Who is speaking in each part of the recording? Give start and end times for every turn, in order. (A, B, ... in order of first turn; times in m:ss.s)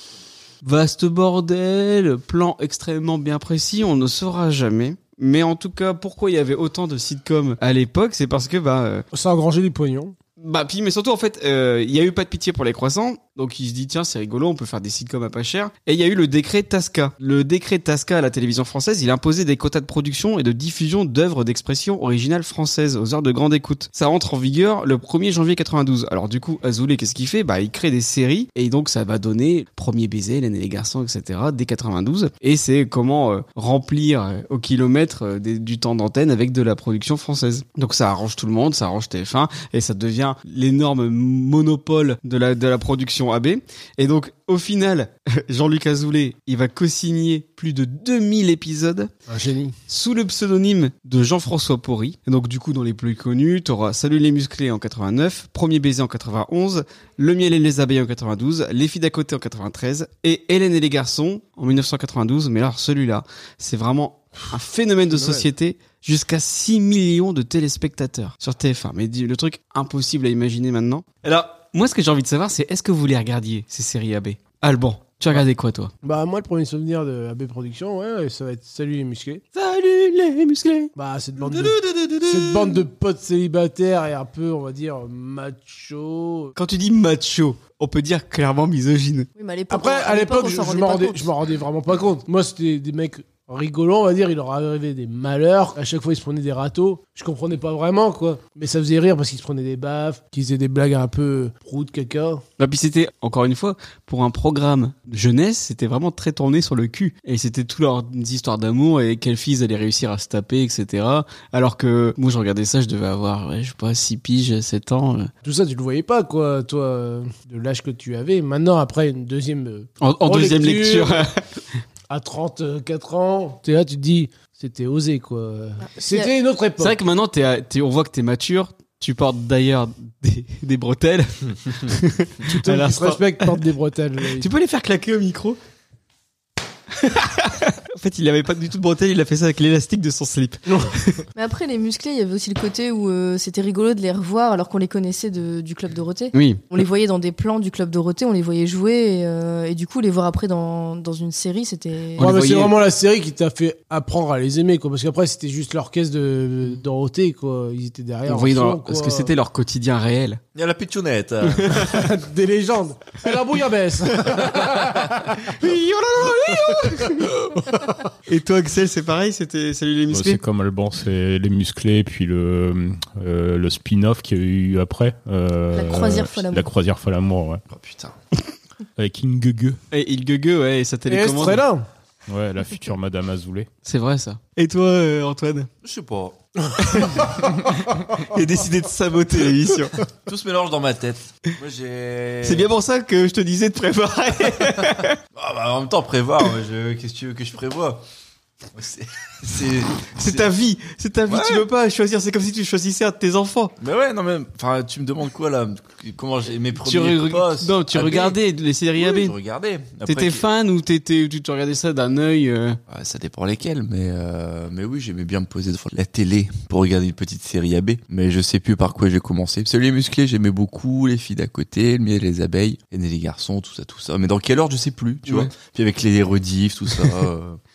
0:00.6-0:09.0 A
0:09.1-0:10.2 B
0:10.4-0:49.1 A
0:49.3-0:49.8 B
0:49.9-1:15.9 A
1:05.1-1:05.5 B
1:16.0-1:19.4 B
1:19.5-1:20.9 A
1:21.0-1:26.6 B
1:22.0-1:22.2 A
1:26.6-1:29.3 A
1:29.4-1:31.3 C
1:29.7-1:42.4 B
1:42.6-1:55.3 A
1:55.4-2:01.3 B
2:00.0-2:01.6 A
2:02.1-2:07.0 B
2:05.8-2:06.3 C
2:06.8-2:13.6 A
2:12.4-2:14.5 B
2:14.4-2:15.6 A
2:17.0-2:21.2 A
2:21.4-2:32.3 C
2:26.3-2:26.6 A
2:32.2-2:32.8 A
2:32.2-2:39.3 B
2:38.3-2:40.4 A
2:40.6-2:41.9 D
2:41.8-2:45.2 B
2:45.4-2:47.4 A
2:46.8-2:47.1 B
2:47.7-2:47.9 B
2:48.3-2:50.4 A
2:50.1-2:57.6 E
2:55.7-2:56.7 C
2:57.7-2:58.2 D
2:59.0-2:59.8 E
2:59.9-3:01.6 A
3:01.1-3:01.9 B
3:02.3-3:03.7 E
3:03.8-3:05.7 A
3:05.8-3:06.4 D
3:06.8-3:07.7 A
3:08.2-3:10.0 A
3:10.3-3:12.7 D
3:12.4-3:15.2 A
3:15.3-3:18.0 D
3:18.7-3:20.5 D
3:20.2-3:23.7 A
3:21.3-3:21.7 D
3:23.8-3:28.4 D
3:26.8-3:29.4 A
3:29.0-3:30.5 D
3:30.0-3:32.8 A
3:32.9-3:47.6 D
3:45.3-3:45.5 A